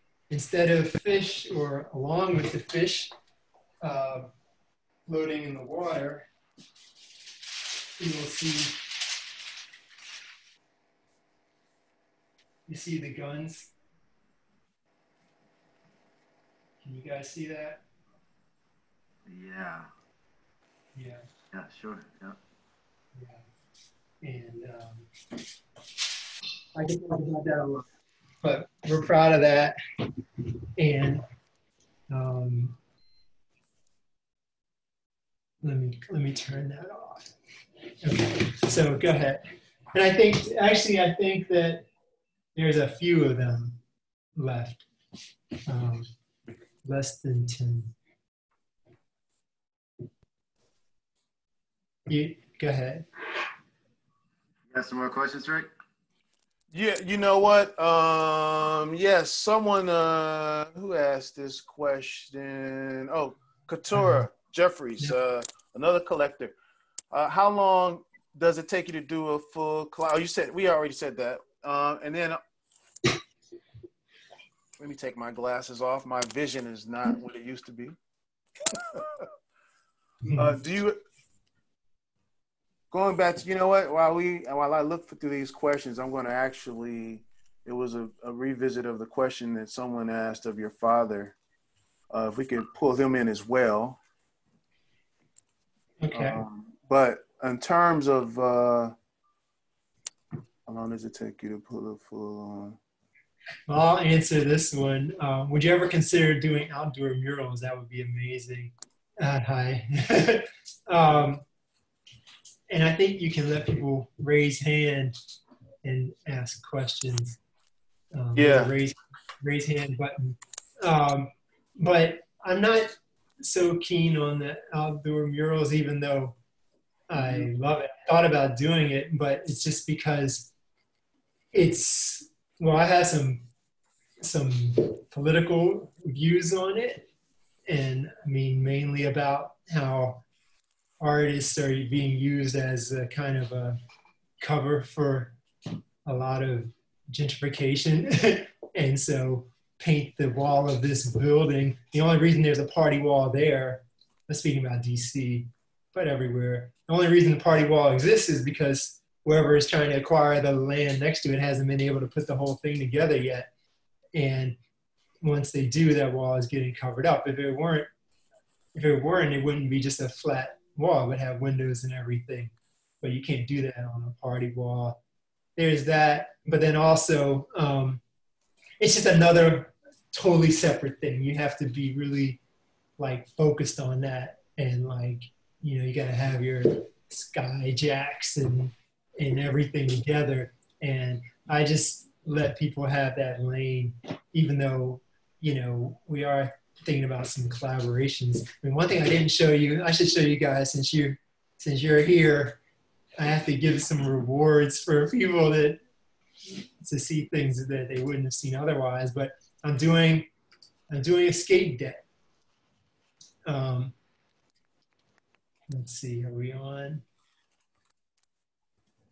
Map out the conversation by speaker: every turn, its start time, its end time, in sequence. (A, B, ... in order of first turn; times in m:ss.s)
0:00.3-0:03.1 A
0:03.8-0:04.3 A
0:05.1-0:06.2 A
0:08.0-0:08.8 A
0:12.7-0:13.7 A
0:16.8-0:17.8 A
0:19.3-0:19.9 B
0:20.9-0:21.2 A
0:21.5-0:22.4 B
0:23.1-0:23.4 A
0:24.2-0:25.1 A
0:26.7-0:27.8 A
0:28.4-0:29.8 A
0:30.8-0:31.2 A
0:32.1-0:32.8 A
0:35.6-0:37.3 A
0:38.0-0:39.4 A
0:39.9-0:41.8 A
0:42.5-0:43.8 A
0:44.4-0:44.8 A
0:45.7-0:46.1 A
0:46.8-0:47.9 A
0:52.1-0:53.0 A
0:54.7-0:55.7 B
0:56.7-1:06.5 C
1:03.9-1:04.3 A
1:07.1-1:12.4 C
1:14.8-1:17.9 C
1:18.6-1:19.3 C
1:20.2-1:20.6 A
1:20.4-1:21.0 C
1:22.9-1:31.4 C
1:32.1-1:34.0 C
1:36.0-1:36.4 A
1:36.1-1:38.9 C
1:40.7-1:42.8 C
1:43.7-1:51.4 A
1:52.7-1:55.2 A
1:55.8-1:57.4 A
1:58.1-2:06.4 A
1:58.4-1:58.7 C
2:07.1-2:10.5 A
2:11.5-2:13.4 A
2:14.2-2:17.0 A
2:17.7-2:20.2 A
2:21.0-2:23.8 A
2:24.4-2:25.3 A
2:26.0-2:43.5 A
2:44.1-2:44.6 A
2:45.2-2:47.9 A
2:48.7-2:55.0 A
2:55.6-2:58.0 A
2:58.8-3:02.4 A
3:03.0-3:22.6 A
3:23.2-3:25.8 A
3:26.8-3:30.3 A
3:30.9-3:32.0 A
3:33.4-3:33.9 A
3:35.7-3:37.0 A